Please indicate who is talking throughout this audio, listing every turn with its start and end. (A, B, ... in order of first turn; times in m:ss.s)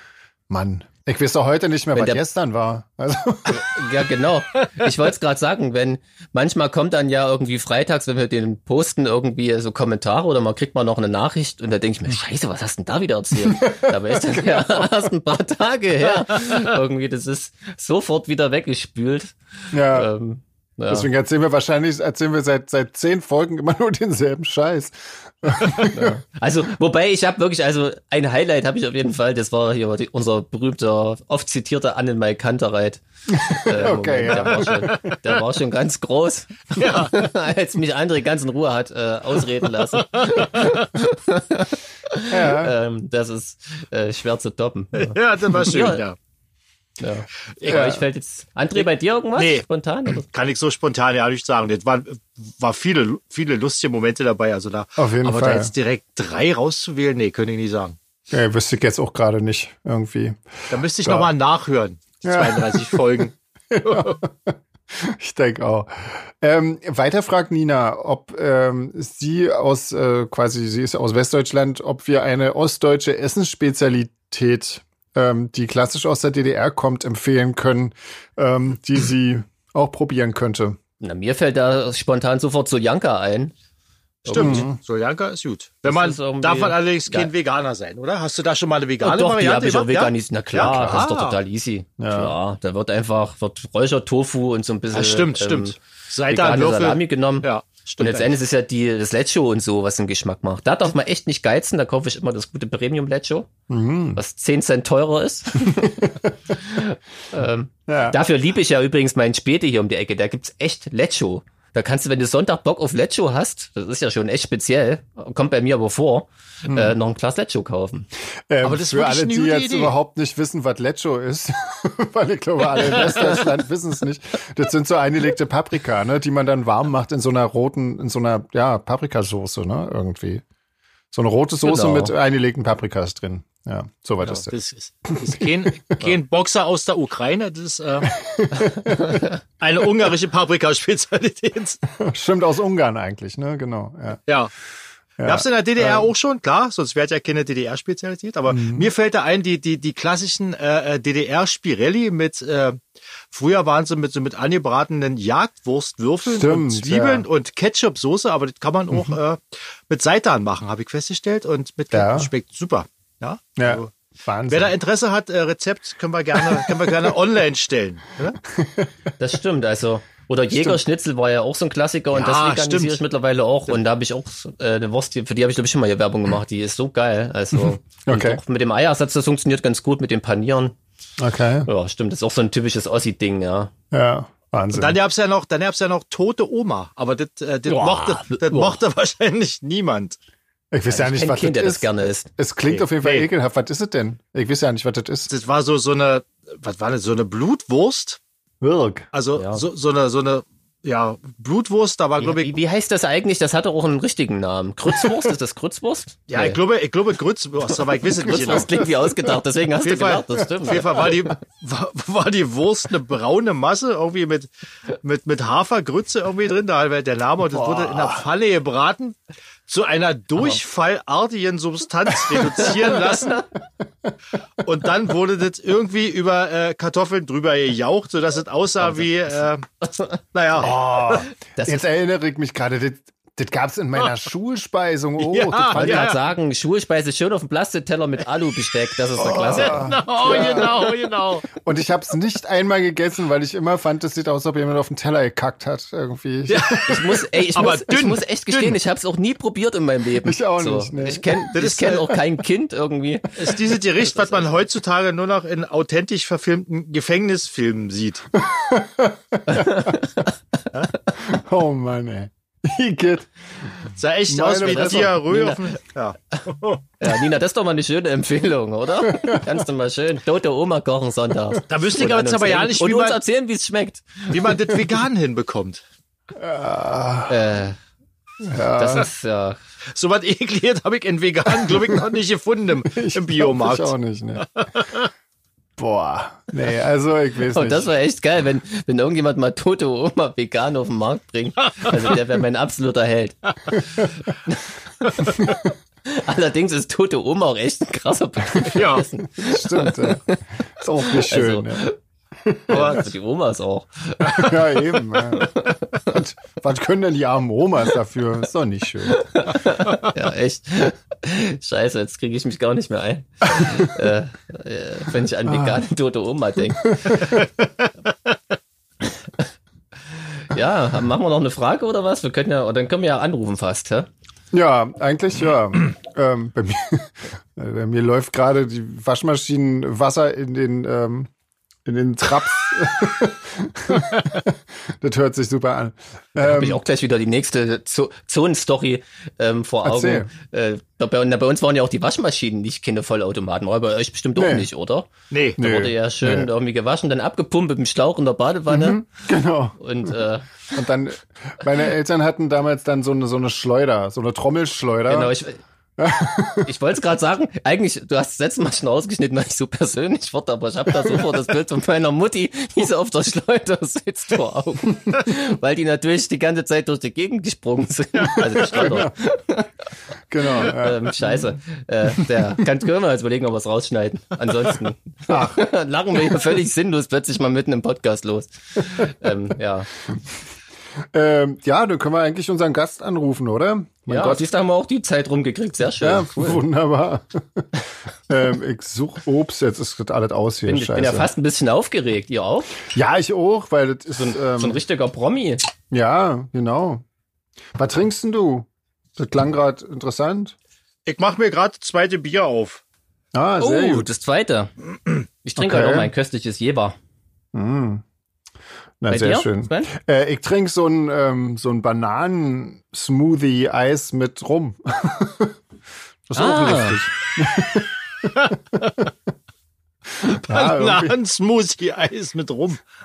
0:00.5-0:03.8 A
0:01.9-0:02.2 B
0:03.5-0:21.1 B
0:13.4-0:14.9 A
0:19.7-0:20.1 A
0:20.9-0:26.2 A
0:25.8-0:46.0 B
0:33.3-0:35.2 A
0:34.7-0:35.2 C
0:36.8-0:37.2 C
0:40.1-0:40.8 C
0:42.3-0:42.7 A
0:44.9-0:46.2 C
0:47.0-0:50.2 B
0:47.6-0:47.9 C
0:47.7-0:48.0 A
0:49.4-0:58.0 C
0:55.0-0:55.7 A
0:58.3-1:01.3 A
1:00.7-1:04.2 C
1:02.2-1:20.8 A
1:21.0-1:23.5 B
1:24.2-1:24.7 B
1:24.2-1:31.4 C
1:24.4-1:24.8 A
1:25.8-1:27.3 B
1:29.0-1:35.8 B
1:30.5-1:31.0 A
1:32.0-1:32.3 A
1:34.9-1:38.4 C
1:36.3-1:37.5 B
1:38.0-1:43.5 B
1:43.7-1:44.2 A
1:44.2-1:58.1 B
1:45.6-1:46.3 A
1:47.9-1:48.2 A
1:58.5-2:10.4 A
1:58.6-1:59.9 C
2:02.8-2:03.1 C
2:11.1-2:14.5 A
2:11.6-2:12.1 B
2:14.2-2:18.1 C
2:18.1-2:19.2 A
2:18.9-2:19.3 B
2:19.6-2:21.8 C
2:21.9-2:24.2 A
2:25.2-2:26.1 A
2:25.2-2:32.8 C
2:28.5-2:28.9 A
2:33.3-2:43.9 C
2:36.2-2:37.2 A
2:41.9-2:42.3 A
2:43.6-2:44.7 A
2:44.5-2:48.4 C
2:48.4-2:48.9 A
2:49.2-3:00.7 B
2:52.1-2:53.0 C
2:57.6-2:58.4 A
3:01.2-3:01.7 A
3:01.6-3:03.7 B
3:03.9-3:05.0 A
3:04.7-3:10.2 C
3:07.7-3:08.8 B
3:10.7-3:15.3 A
3:10.9-3:12.3 B
3:12.7-3:13.3 C
3:15.3-3:18.2 C
3:18.6-3:19.1 A
3:19.1-3:22.5 C
3:19.4-3:19.6 B
3:22.2-3:26.6 B
3:26.3-3:28.7 C
3:28.1-3:31.2 B
3:28.3-3:29.3 A
3:29.8-3:39.2 C
3:37.5-3:38.2 A
3:39.7-3:43.4 C
3:44.6-3:49.6 C
3:48.8-3:50.2 B
3:50.3-3:51.1 C
3:50.6-3:56.2 A
3:51.6-3:51.8 B
3:55.2-3:56.2 C
3:55.7-4:01.3 B
3:59.2-4:00.8 A
3:59.3-4:01.5 C
4:01.5-4:07.0 A
4:06.5-4:08.8 C
4:06.7-4:14.5 B
4:10.2-4:11.5 A
4:11.5-4:12.2 C
4:13.4-4:18.3 C
4:18.3-4:20.0 A
4:19.5-4:21.1 B
4:21.1-4:25.2 A
4:24.0-4:26.8 C
4:24.6-4:25.6 B
4:27.0-4:34.8 B
4:29.0-4:29.6 A
4:31.7-4:33.2 C
4:34.3-4:35.8 C
4:36.3-4:37.4 A
4:37.3-4:37.8 B
4:38.4-4:39.1 A
4:38.7-4:39.6 B
4:39.9-4:45.1 C
4:41.7-4:42.0 A
4:42.8-4:44.5 A
4:45.8-4:47.9 A
4:47.5-5:00.2 B
4:55.4-4:55.7 A
4:58.7-4:59.1 C
4:59.4-5:01.9 A
5:01.0-5:01.9 B
5:02.4-5:03.0 A
5:02.7-5:06.1 B
5:02.7-5:03.1 C
5:04.3-5:09.2 A
5:09.1-5:17.4 B
5:15.5-5:15.8 A
5:17.0-5:17.4 A
5:20.5-5:24.1 B
5:24.5-5:31.3 A
5:31.8-5:36.8 A
5:36.4-5:49.0 B
5:39.8-5:40.3 A
5:44.4-5:44.7 A
5:45.3-5:45.6 C
5:45.6-5:46.5 A
5:48.7-5:55.3 A
5:49.8-5:50.7 B
5:55.1-5:55.6 B
5:56.0-5:56.7 A
5:56.6-6:09.7 B
6:01.0-6:01.3 A
6:08.2-6:08.9 C
6:08.7-6:09.1 A
6:10.3-6:11.5 A
6:10.4-6:19.9 B
6:12.1-6:12.6 A
6:15.3-6:15.6 A
6:21.1-6:24.4 A
6:24.1-6:26.6 B
6:26.0-6:27.7 A
6:28.3-6:31.3 A
6:30.6-6:32.7 B
6:32.9-6:34.8 A
6:34.2-6:35.6 B
6:35.9-6:37.0 A
6:37.7-6:40.5 A
6:41.0-6:42.8 C
6:43.3-6:44.1 A
6:43.6-6:44.7 B
6:45.4-6:47.0 B
6:45.6-6:46.1 A
6:47.5-6:48.0 A
6:49.0-6:55.6 A
6:49.1-6:49.9 B
6:56.3-6:59.0 A
6:56.3-6:57.0 B
6:58.4-6:59.0 C
7:00.2-7:01.2 A
7:00.2-7:02.8 C